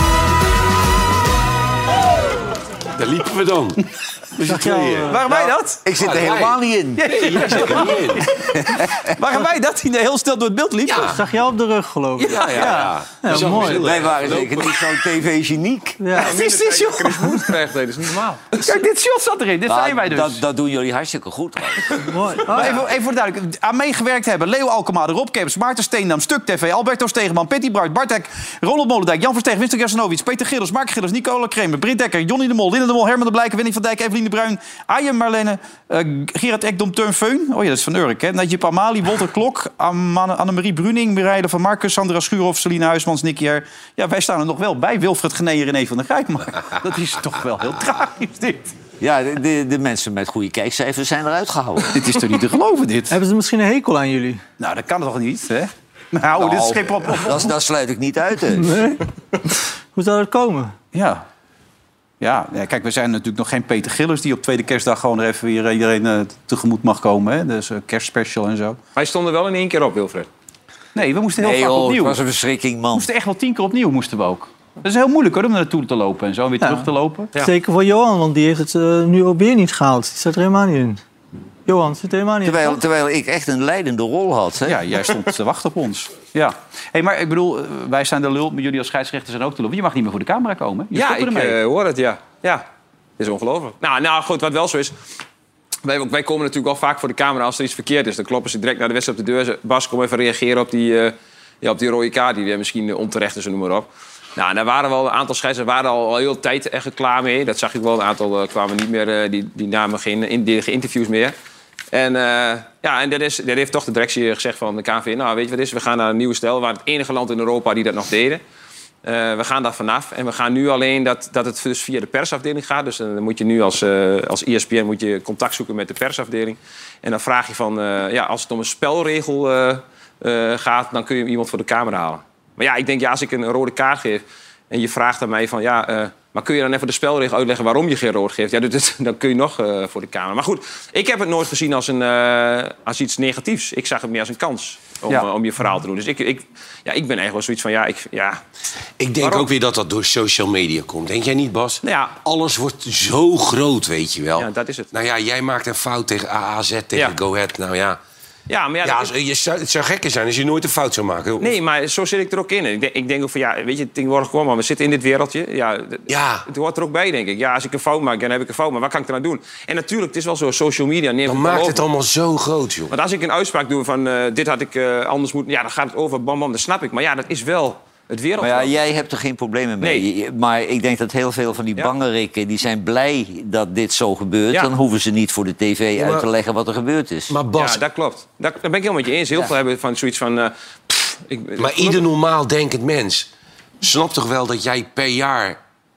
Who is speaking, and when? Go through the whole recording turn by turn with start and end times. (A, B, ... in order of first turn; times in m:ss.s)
0:03.0-0:05.4 A
0:04.4-0:05.3 B
0:05.1-0:05.8 C
0:05.8-0:07.3 D
0:05.9-0:08.3 A
0:07.0-0:11.1 C
0:10.8-0:11.2 A
0:11.0-0:13.8 B
0:12.2-0:14.9 A
0:12.4-0:12.7 C
0:13.6-0:16.0 D
0:16.0-0:16.3 B
0:16.2-0:18.6 E
0:16.2-0:17.4 C
0:18.5-0:20.4 C
0:19.7-0:21.9 D
0:22.1-0:22.8 B
0:22.5-0:48.7 C
0:49.0-0:52.0 D
0:51.9-0:53.2 C
0:53.1-0:54.4 B
0:54.6-0:57.5 C
0:56.4-0:58.7 D
0:58.6-0:59.0 B
0:59.9-1:00.7 B
1:00.9-1:01.2 C
1:02.2-1:08.8 C
1:09.0-1:10.3 E
1:10.9-1:12.2 C
1:11.4-1:13.1 D
1:12.9-1:17.3 C
1:16.6-1:21.0 B
1:21.6-1:22.8 B
1:22.4-1:24.8 D
1:24.6-1:31.6 C
1:30.9-1:32.6 E
1:33.2-1:34.9 E
1:35.8-1:51.3 E
1:51.9-1:58.4 E
1:59.0-2:28.4 E
2:29.0-2:38.0 A
2:29.2-2:29.5 E
2:31.8-2:32.1 E
2:34.4-2:34.9 E
2:38.5-2:39.1 E
2:38.8-2:41.5 A
2:41.4-2:51.8 E
2:46.1-2:46.4 A
2:51.2-2:52.9 A
2:52.9-2:58.7 E
2:58.4-3:07.3 D
2:59.8-3:00.0 E
3:06.0-3:06.2 A
3:07.3-3:07.8 A
3:07.6-3:12.0 E
3:11.6-3:13.3 A
3:13.8-3:15.6 A